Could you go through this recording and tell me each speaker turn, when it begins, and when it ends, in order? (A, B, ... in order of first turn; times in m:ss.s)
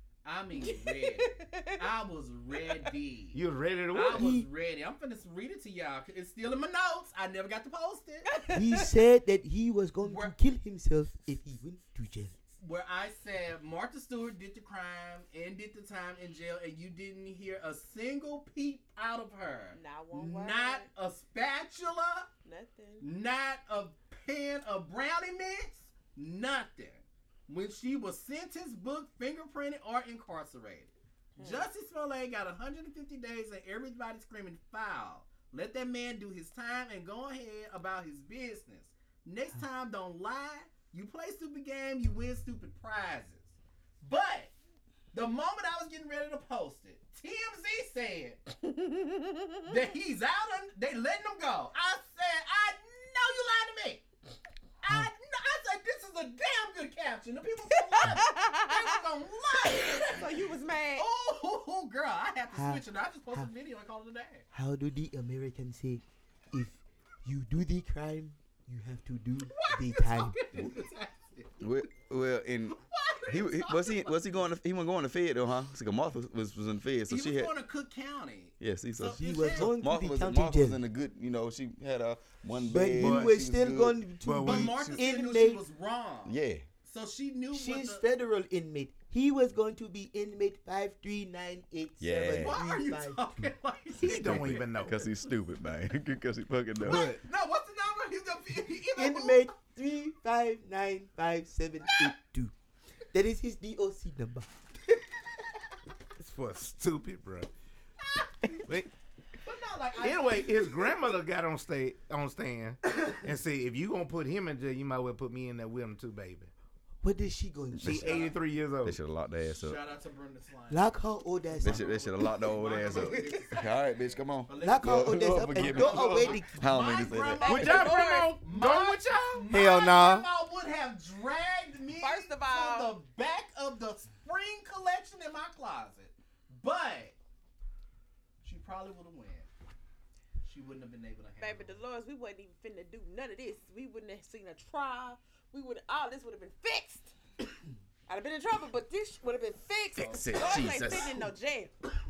0:00.2-0:03.4 A
0:00.6-0:01.8 B
0:03.3-0:04.4 C
0:03.9-0:08.4 A
0:04.0-0:04.5 D
0:08.3-0:08.9 B
0:08.5-0:12.4 D
0:10.0-0:10.4 A
0:12.6-0:22.3 A
0:19.7-0:20.9 B
0:22.4-0:23.1 B
0:23.0-0:44.5 A
0:31.4-0:31.7 B
0:45.1-0:48.4 A
0:48.7-0:49.7 B
0:49.7-0:54.0 A
0:54.8-1:00.3 A
0:54.8-0:55.1 D
0:58.0-0:59.0 B
0:59.8-1:01.1 B
1:01.0-1:04.5 A
1:02.5-1:03.5 D
1:04.5-1:10.5 D
1:09.5-1:11.5 A
1:11.6-1:17.5 E
1:12.8-1:14.2 A
1:17.1-1:19.7 A
1:18.6-1:24.1 E
1:19.2-1:20.8 D
1:22.6-1:25.6 D
1:22.9-1:23.4 C
1:24.2-1:24.9 C
1:24.4-1:28.0 A
1:24.6-1:25.0 E
1:26.2-1:26.6 E
1:27.5-1:33.5 D
1:32.0-1:32.6 E
1:32.4-1:34.6 A
1:34.0-1:35.1 C
1:34.0-1:37.1 E
1:36.8-1:37.2 C
1:36.8-1:39.5 A
1:38.9-1:42.5 D
1:43.1-1:44.7 D
1:46.2-1:47.5 C
1:48.6-1:48.9 C
1:49.4-1:50.9 A
1:50.0-1:56.5 C
1:57.0-1:58.3 D
1:57.8-1:58.2 E
1:57.8-1:59.0 C
1:58.1-1:58.3 A
1:58.8-1:59.8 E
1:59.5-2:00.9 A
2:00.7-2:02.2 D
2:01.5-2:17.2 A
2:01.6-2:07.6 E
2:02.8-2:03.4 D
2:04.6-2:06.5 D
2:07.4-2:08.4 B
2:07.4-2:09.5 C
2:09.5-2:10.3 D
2:12.0-2:13.0 B
2:18.4-2:19.5 A
2:20.4-2:21.8 A
2:21.4-2:27.1 B
2:28.1-2:31.7 B
2:30.0-2:31.1 A
2:30.0-2:31.2 E